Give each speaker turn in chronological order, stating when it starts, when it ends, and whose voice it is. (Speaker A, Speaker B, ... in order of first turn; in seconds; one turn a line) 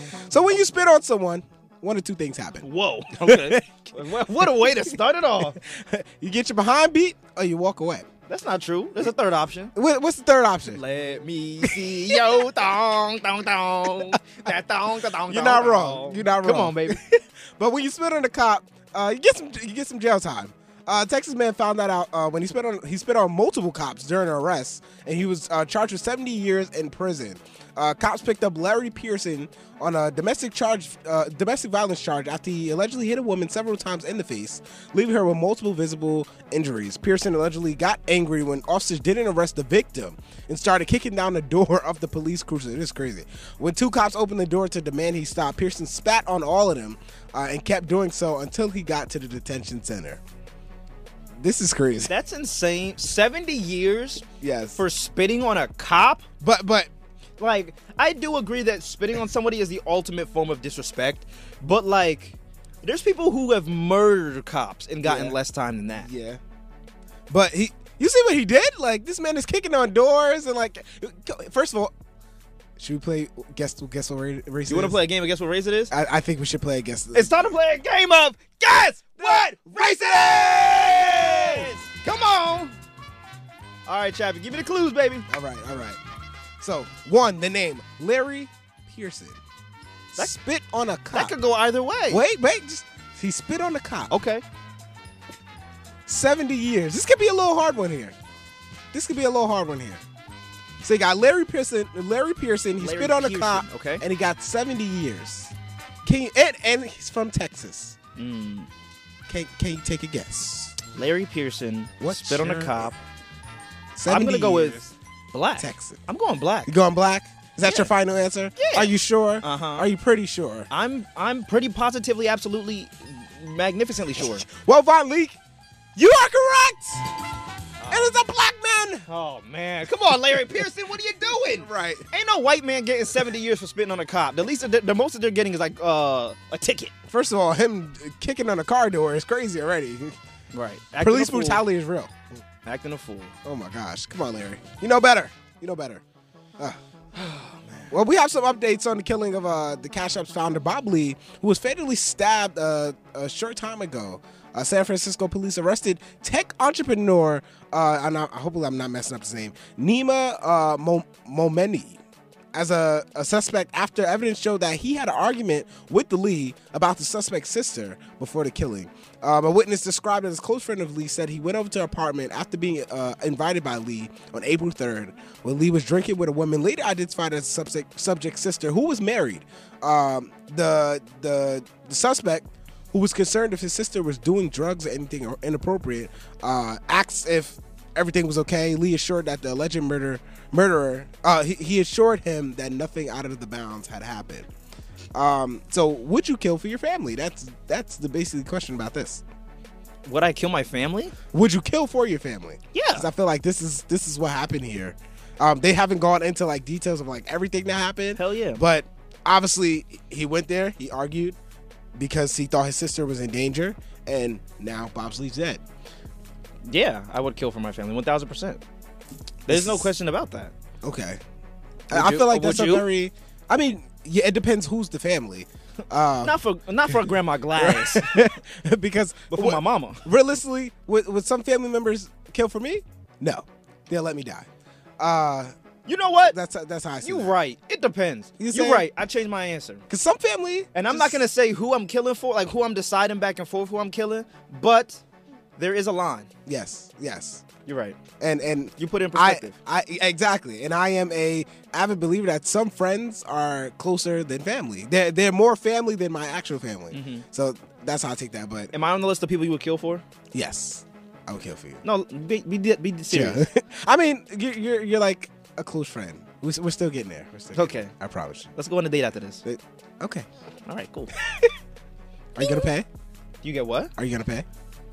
Speaker A: 0.3-3.9
Speaker B: 2.6-5.6
Speaker A: 4.4-8.1
Speaker B: 8.3-9.7
Speaker A: 9.7-10.8
Speaker B: 10.7-17.0
Speaker A: 11.6-12.2
Speaker A: 15.2-50.2
Speaker A: 51.4-52.1
Speaker B: 52.1-54.2
Speaker A: 54.4-54.8
Speaker B: 54.8-56.2
Speaker A: 56.4-56.9
Speaker B: 57.4-66.1
Speaker A: 65.0-65.4
Speaker A: 65.9-66.4
Speaker A: 67.3-71.9
Speaker A: 72.8-75.0
Speaker B: 74.7-75.9
Speaker A: 75.9-77.5
Speaker B: 77.1-82.7
Speaker A: 79.2-81.7
Speaker B: 83.8-85.3
Speaker A: 85.3-86.0
Speaker A: 86.6-89.4
Speaker A: 90.2-91.3
Speaker B: 91.1-92.2
Speaker A: 92.1-94.1
Speaker B: 94.1-94.4
Speaker A: 96.1-98.1
Speaker A: 98.9-100.0
Speaker A: 100.8-108.0
Speaker B: 102.8-104.0
Speaker B: 108.2-108.7
Speaker A: 109.3-110.8
Speaker B: 110.9-113.0
Speaker A: 112.0-112.9
Speaker A: 114.0-114.9
Speaker B: 114.1-114.8
Speaker B: 115.3-116.7
Speaker A: 115.6-116.0
Speaker A: 116.7-120.7
Speaker B: 117.6-117.9
Speaker B: 118.5-119.9
Speaker B: 120.7-124.5
Speaker A: 124.2-125.4
Speaker A: 126.0-127.1
Speaker B: 127.8-128.2
Speaker A: 127.9-129.0
Speaker B: 129.1-136.9
Speaker A: 131.6-132.1
Speaker A: 137.1-140.2
Speaker B: 140.5-141.6
Speaker A: 141.0-142.2
Speaker B: 142.6-143.3
Speaker A: 143.4-146.0
Speaker B: 147.1-147.9
Speaker A: 147.9-162.0
Speaker A: 162.5-194.5
Speaker A: 195.1-199.2
Speaker B: 200.1-201.1
Speaker A: 201.3-211.3
Speaker B: 202.7-203.1
Speaker B: 208.2-208.6
Speaker A: 211.9-215.6
Speaker B: 216.6-218.6
Speaker B: 219.5-220.5
Speaker A: 219.5-219.9
Speaker A: 220.8-221.2
Speaker A: 221.9-226.4
Speaker B: 221.9-222.9
Speaker B: 226.2-228.2
Speaker A: 227.5-234.5
Speaker B: 229.3-230.0
Speaker A: 235.0-235.5
Speaker B: 235.8-236.3
Speaker A: 236.2-237.3
Speaker B: 237.0-239.8
Speaker A: 238.4-238.9
Speaker A: 239.9-241.2
Speaker B: 240.7-245.0
Speaker B: 245.6-246.3
Speaker A: 246.4-247.4
Speaker B: 247.7-248.0
Speaker A: 248.2-258.7
Speaker B: 248.8-249.6
Speaker B: 256.9-257.2
Speaker B: 258.7-260.0
Speaker A: 260.3-261.8
Speaker B: 261.8-263.4
Speaker A: 263.1-268.5
Speaker B: 267.5-267.9
Speaker B: 268.5-269.4
Speaker A: 269.4-270.3
Speaker B: 270.6-271.1
Speaker A: 271.2-271.5
Speaker A: 272.3-272.9
Speaker B: 273.4-273.9
Speaker A: 274.0-274.4